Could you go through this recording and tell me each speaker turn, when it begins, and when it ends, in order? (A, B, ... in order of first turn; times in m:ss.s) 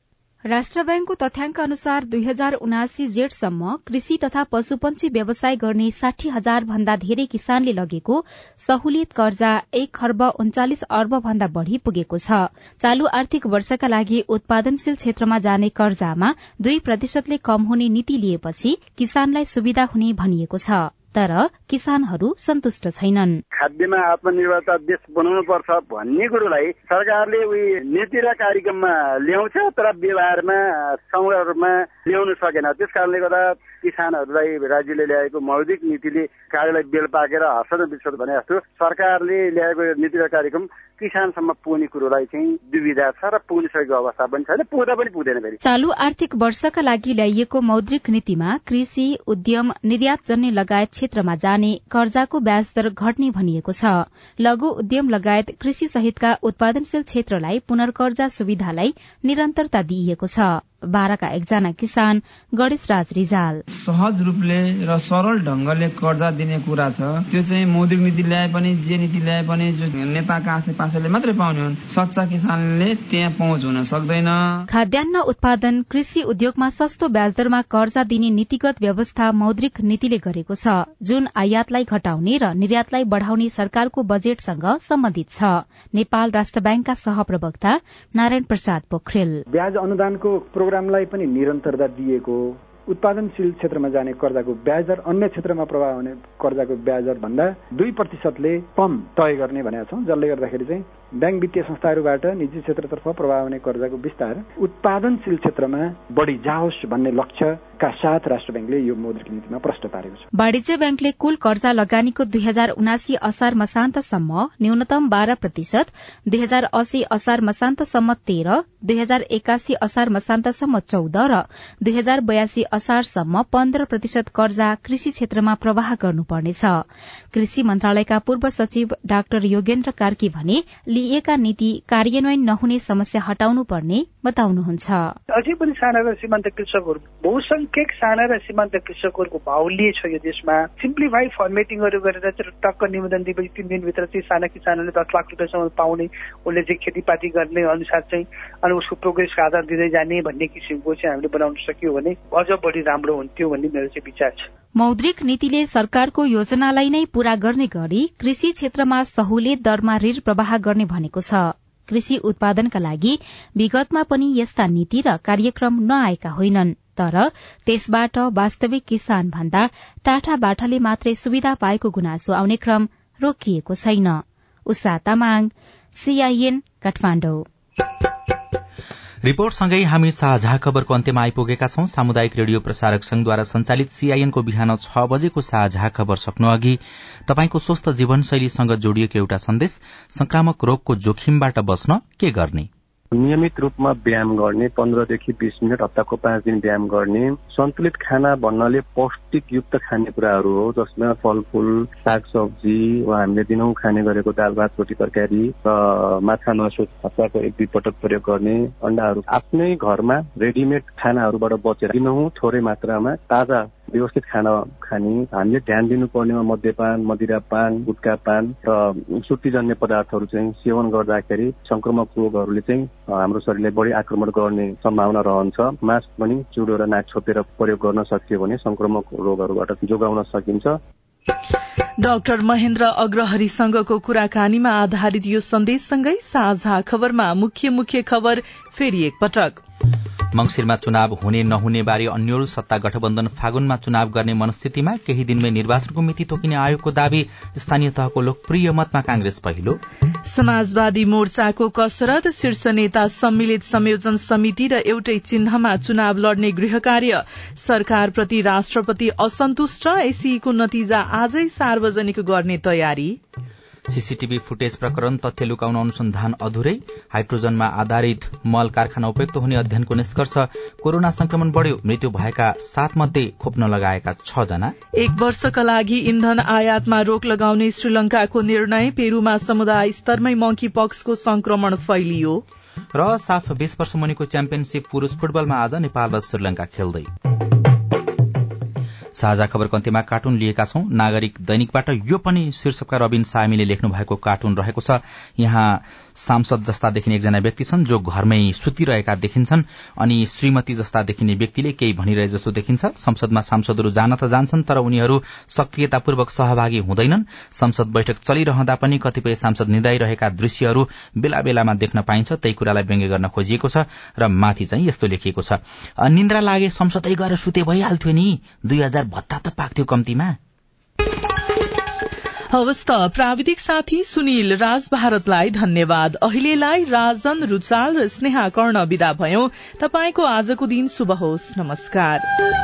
0:00.5-0:23.4 A
0:23.5-0:45.6 B
0:45.6-1:03.6 A
1:03.7-1:14.6 C
1:14.7-1:29.4 A
1:29.5-1:50.3 D
1:50.4-2:15.2 A
2:15.3-2:34.5 E
2:34.8-2:57.5 A
2:59.2-3:12.7 F
3:13.1-3:50.8 G
3:52.0-3:59.6 H
4:00.3-4:09.8 F
4:10.3-4:23.2 H
4:23.9-4:34.7 F
4:35.0-4:42.4 H
4:42.9-4:47.1 F
4:49.2-5:20.4 F
5:22.5-5:32.2 H